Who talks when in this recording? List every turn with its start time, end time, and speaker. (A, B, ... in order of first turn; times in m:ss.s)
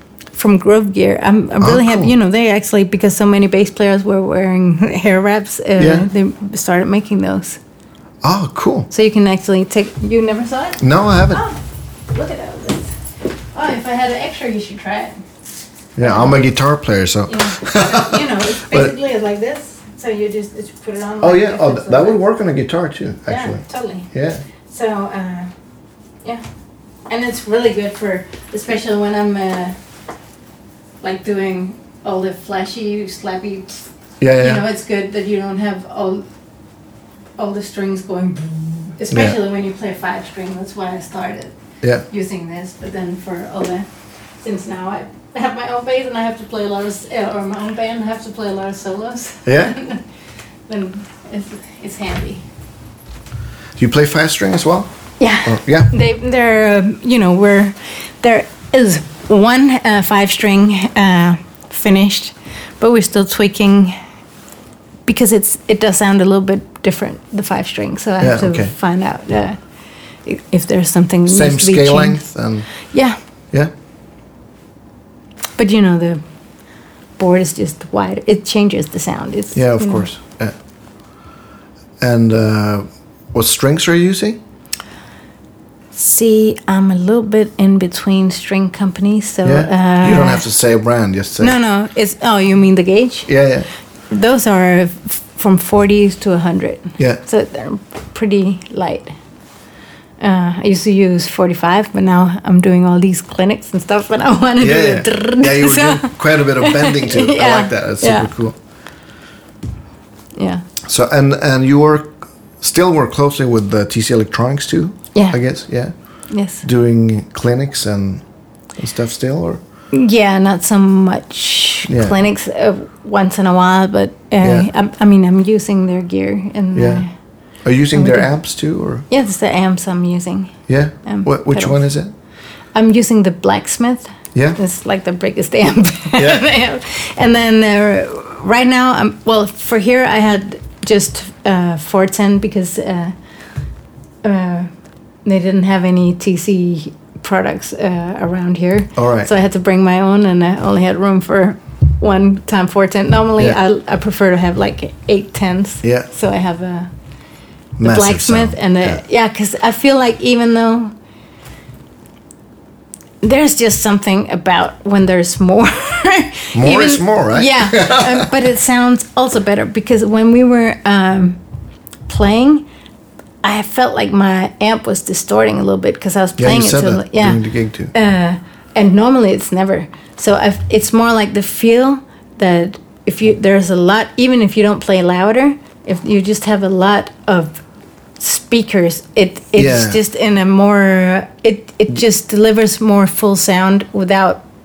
0:00.3-0:07.6 A
0:01.6-0:02.1 B
0:05.8-0:06.1 B
0:08.2-0:08.9 B
0:08.9-0:13.0 A
0:10.8-0:11.4 B
0:13.5-0:15.2 A
0:16.0-0:18.9 B
0:16.0-0:16.4 A
0:17.3-0:22.2 A
0:21.2-0:24.4 B
0:23.3-0:24.1 A
0:24.7-0:25.5 A
0:27.1-0:29.8 A
0:31.0-0:36.2 A
0:34.2-0:34.6 B
0:37.4-0:41.6 A
0:39.1-0:39.4 B
0:42.1-0:43.9 A
0:44.4-0:50.0 A
0:49.4-0:49.8 B
0:50.7-0:52.4 A
0:53.8-0:54.9 B
0:55.2-1:04.0 A
0:55.4-0:55.9 B
1:05.1-1:09.6 A
1:08.2-1:08.7 B
1:10.3-1:12.2 A
1:11.3-1:12.7 B
1:12.9-1:13.2 A
1:15.6-1:16.2 A
1:17.2-1:20.1 A
1:19.5-1:20.6 B
1:22.0-1:24.4 B
1:25.9-1:30.4 A
1:29.4-1:31.6 B
1:31.4-1:33.3 A
1:33.3-1:33.7 B
1:34.1-1:39.1 A
1:40.2-1:48.3 A
1:44.6-1:48.6 B
1:50.4-1:50.6 A
1:50.8-1:55.9 B
1:56.3-1:56.6 A
1:56.6-1:58.2 B
1:58.8-1:59.6 B
1:59.9-2:07.1 A
2:01.9-2:02.2 B
2:04.4-2:04.7 B
2:06.7-2:07.0 B
2:07.6-2:09.1 B
2:07.9-2:08.3 A
2:09.1-2:11.8 A
2:10.7-2:12.1 B
2:12.8-2:23.2 A
2:14.3-2:14.6 B
2:16.2-2:16.5 B
2:24.2-2:24.7 A
2:25.2-2:36.9 A
2:29.0-2:29.3 B
2:37.8-2:39.0 B
2:37.8-2:40.9 A
2:43.2-2:51.4 A
2:46.5-2:48.3 B
2:52.1-2:52.6 A
2:53.4-2:57.4 A
2:56.4-2:57.9 B
2:57.9-3:07.6 A
3:08.2-3:14.4 A
3:09.6-3:10.0 B